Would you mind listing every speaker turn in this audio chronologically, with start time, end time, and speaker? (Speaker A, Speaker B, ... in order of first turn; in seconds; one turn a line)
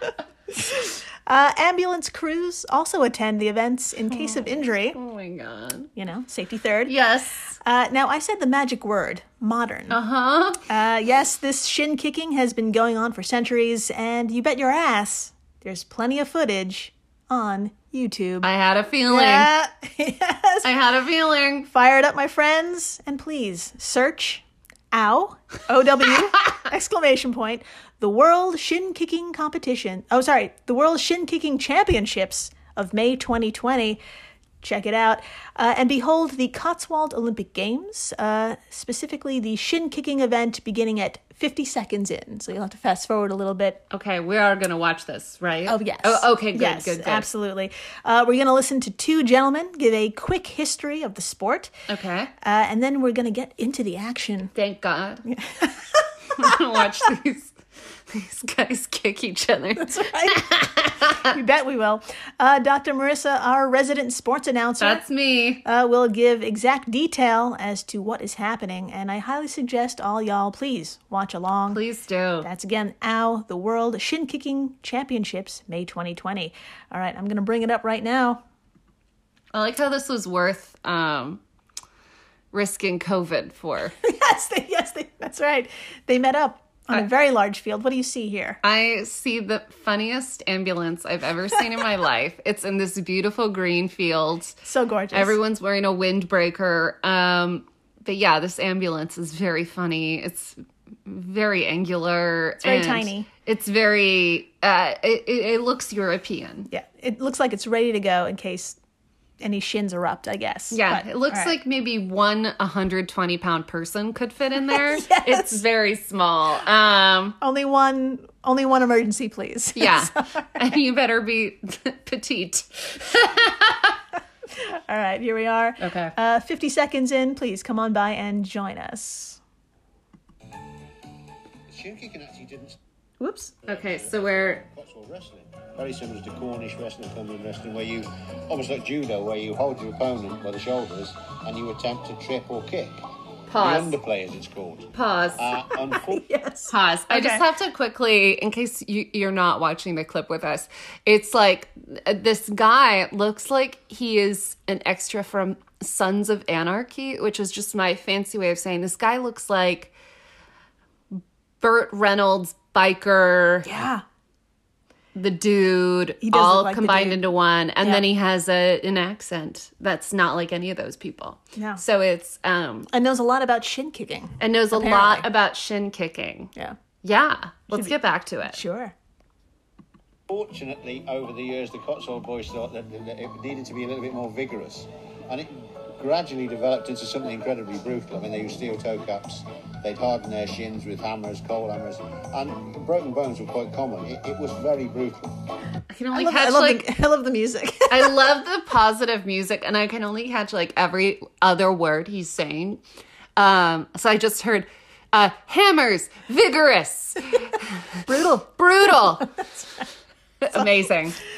Speaker A: 0.5-5.0
Speaker B: 4.1-5.9
Speaker A: 6.0-6.9
Speaker B: 6.9-7.5
Speaker A: 7.6-10.0
Speaker B: 9.9-10.6
Speaker A: 10.7-18.5
Speaker B: 18.4-19.5
Speaker A: 19.1-20.7
Speaker B: 20.6-21.7
Speaker A: 21.7-34.0
Speaker A: 34.6-43.8
Speaker B: 43.9-47.3
Speaker A: 45.7-51.7
Speaker B: 51.9-52.3
Speaker A: 52.4-54.5
Speaker B: 54.5-55.2
Speaker A: 55.3-56.6
Speaker B: 56.4-57.5
Speaker B: 58.1-61.3
Speaker A: 59.8-65.0
Speaker B: 64.8-65.6
Speaker A: 65.6-71.8
Speaker B: 71.7-72.5
Speaker A: 72.4-78.4
Speaker B: 79.5-81.4
Speaker B: 82.5-84.0
Speaker A: 84.0-88.6
Speaker B: 88.6-94.6
Speaker A: 94.7-95.4
Speaker B: 95.1-106.7
Speaker A: 102.6-103.3
Speaker A: 106.7-108.8
Speaker A: 109.4-111.5
Speaker B: 110.7-117.4
Speaker A: 114.7-115.6
Speaker A: 117.4-120.6
Speaker B: 119.8-124.0
Speaker A: 124.6-129.4
Speaker B: 125.8-126.2
Speaker C: 131.7-132.8
Speaker A: 133.2-133.5
Speaker C: 133.7-143.0
Speaker B: 133.7-134.7
Speaker B: 143.5-144.0
Speaker C: 143.6-146.3
Speaker B: 144.9-145.5
Speaker A: 145.8-147.4
Speaker B: 146.7-159.9
Speaker B: 161.1-163.7
Speaker A: 163.7-164.0
Speaker B: 165.2-172.9
Speaker A: 166.2-167.2
Speaker A: 171.6-171.8
Speaker A: 172.9-175.3
Speaker B: 174.4-176.5
Speaker B: 177.0-178.6
Speaker A: 178.5-178.9
Speaker C: 180.3-195.3
Speaker B: 195.9-196.8
Speaker A: 196.1-198.2
Speaker B: 197.9-202.8
Speaker B: 203.4-209.3
Speaker A: 208.1-209.8
Speaker B: 210.4-211.2